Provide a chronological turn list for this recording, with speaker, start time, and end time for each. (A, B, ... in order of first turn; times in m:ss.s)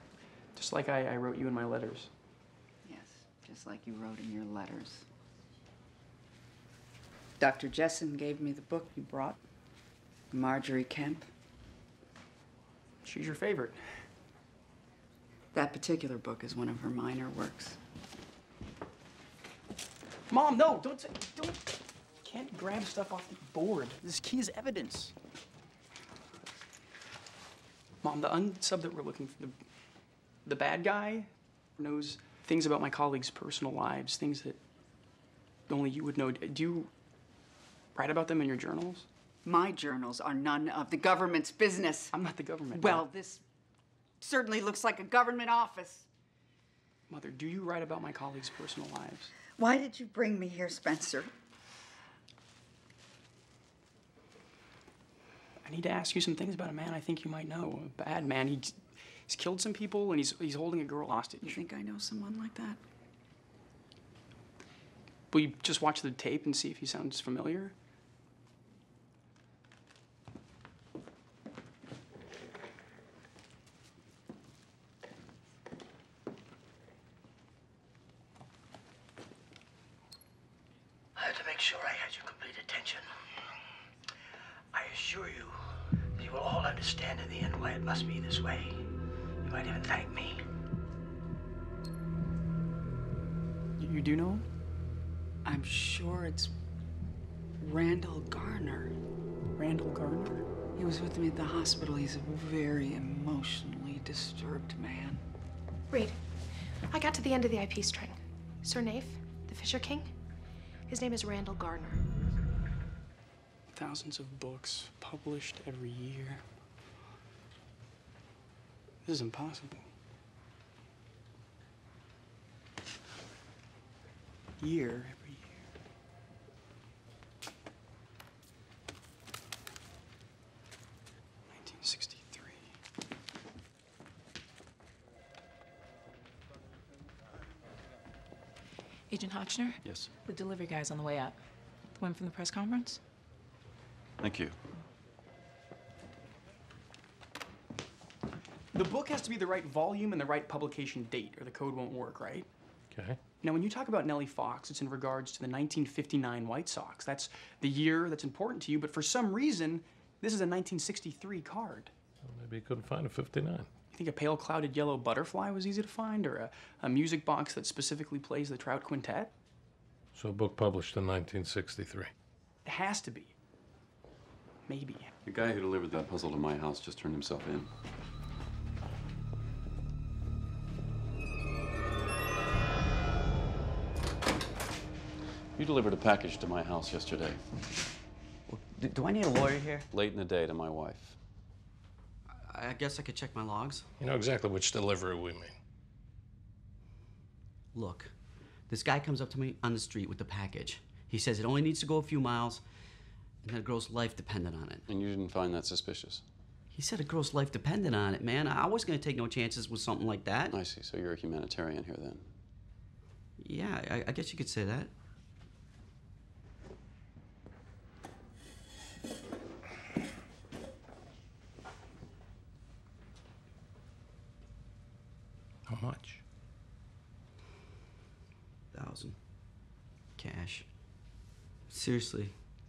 0:00.5-0:02.1 A
0:02.8-0:05.0 B
0:07.4-0:09.4 B
0:10.3-0:11.3 B
0:13.0-0:13.8 A
0:15.5-0:17.8 B
0:20.3-0:21.7 A
0:22.2-0:25.1 A
0:28.0-0:29.5 A
0:30.4-0:34.6 A
0:35.7-0:36.9 A
0:37.9-0:39.0 A
0:39.4-0:42.1 B
0:42.1-0:43.0 A
0:42.7-0:43.4 B
0:44.2-0:46.1 B
0:47.1-0:49.3 A
0:49.6-0:51.3 B
0:55.6-1:01.6 A
1:01.4-1:02.8 B
1:05.3-1:07.7 A
1:21.2-1:23.1 C
1:24.7-1:25.6 C
1:26.2-1:28.8 C
1:29.4-1:30.4 C
1:33.8-1:34.4 A
1:35.4-1:36.5 B
1:37.6-1:38.9 B
1:39.6-1:40.4 A
1:40.8-1:45.2 B
1:45.9-1:46.2 D
1:46.9-1:50.1 D
1:50.9-1:52.0 D
1:53.7-1:56.4 A
1:59.0-1:59.8 A
2:04.6-2:05.6 A
2:11.5-2:12.6 A
2:19.1-2:21.4 E
2:19.8-2:20.1 F
2:21.9-2:23.0 E
2:24.2-2:24.5 F
2:28.7-2:32.5 A
2:32.9-2:33.2 G
2:33.4-2:41.9 A
2:42.2-2:43.7 G
2:43.9-2:49.3 A
2:50.1-2:52.1 G
2:52.6-2:53.3 A
2:54.7-2:55.1 A
2:55.2-2:57.7 F
3:05.6-3:07.4 F
3:08.5-3:09.9 H
3:09.9-3:11.2 F
3:12.3-3:13.9 H
3:14.0-3:15.5 G
3:17.7-3:18.1 H
3:18.7-3:22.6 H
3:23.4-3:24.9 H
3:24.9-3:26.2 F
3:26.7-3:30.6 H
3:30.5-3:32.2 F
3:33.4-3:34.9 H
3:45.7-3:46.2 G
3:48.7-3:49.2 H
3:50.2-3:50.7 H
3:51.7-3:52.4 H